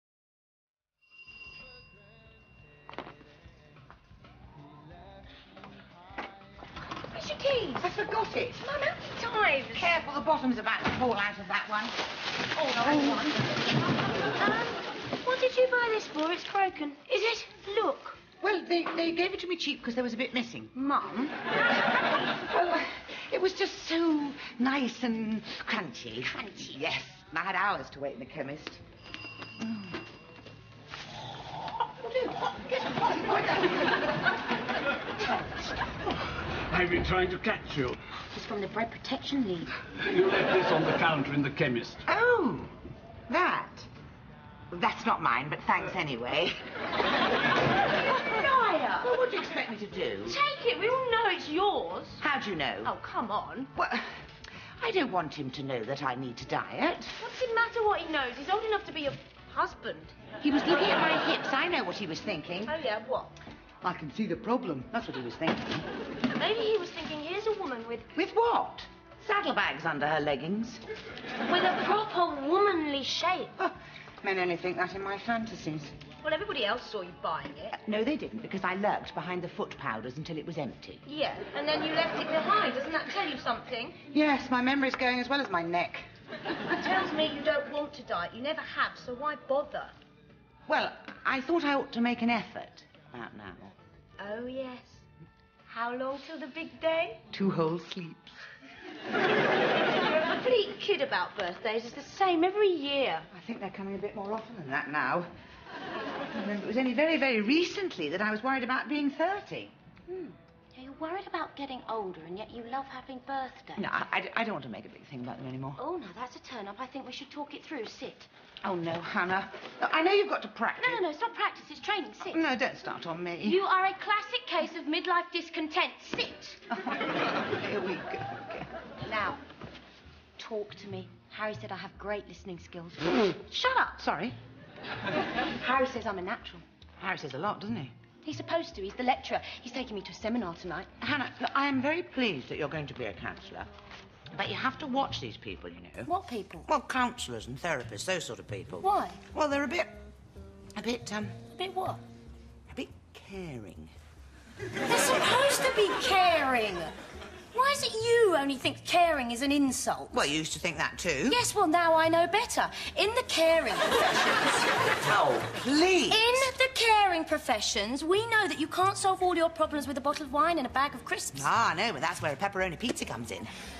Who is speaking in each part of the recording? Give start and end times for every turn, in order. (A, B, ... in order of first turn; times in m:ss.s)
0:07.1-0:07.9 A
0:07.8-0:08.6 B
0:08.6-0:10.0 A
0:09.7-0:12.0 B
0:12.5-0:13.4 A
0:12.8-0:13.2 B
0:14.4-0:18.2 A
0:18.4-0:20.7 B
0:20.7-0:21.3 A
0:22.4-0:28.8 B
0:29.6-0:30.0 B
0:31.9-0:34.1 B
0:36.7-0:38.0 C
0:38.3-0:39.7 A
0:40.1-0:42.0 C
0:42.0-0:42.7 B
0:43.3-0:43.9 B
0:44.7-0:46.6 B
0:48.1-0:49.1 A
0:48.9-0:50.4 B
0:50.2-0:52.2 A
0:52.2-0:52.9 B
0:52.8-0:53.7 A
0:53.7-0:57.2 B
0:57.2-1:00.1 A
1:00.4-1:02.7 B
1:02.6-1:03.3 A
1:03.8-1:05.9 B
1:06.3-1:08.1 A
1:08.1-1:10.8 B
1:11.4-1:13.5 A
1:13.6-1:16.0 B
1:16.2-1:17.8 A
1:17.7-1:21.0 B
1:21.0-1:24.0 A
1:24.1-1:26.1 B
1:26.7-1:29.9 A
1:30.7-1:33.7 B
1:34.2-1:35.0 A
1:35.7-1:37.2 A
1:37.3-1:38.4 B
1:40.0-1:43.3 A
1:43.3-1:45.3 B
1:46.3-1:49.7 B
1:50.1-1:53.9 A
1:53.8-1:55.8 B
1:55.8-1:58.3 A
1:58.6-2:01.0 B
2:00.8-2:02.4 A
2:02.3-2:03.6 B
2:03.4-2:06.6 A
2:06.7-2:08.7 B
2:09.0-2:09.4 A
2:10.4-2:14.0 A
2:13.8-2:14.4 B
2:15.6-2:16.6 A
2:17.0-2:17.9 B
2:18.2-2:20.9 A
2:21.0-2:23.7 B
2:24.3-2:26.1 B
2:26.0-2:26.7 A
2:26.6-2:30.0 B
2:28.8-2:29.2 A
2:30.7-2:31.4 B
2:31.6-2:32.0 A
2:32.7-2:33.9 B
2:34.8-2:36.9 A
2:37.5-2:40.2 A
2:40.1-2:41.4 B
2:41.3-2:44.6 A
2:45.0-2:46.5 B
2:46.1-2:51.5 A
2:51.3-2:53.5 B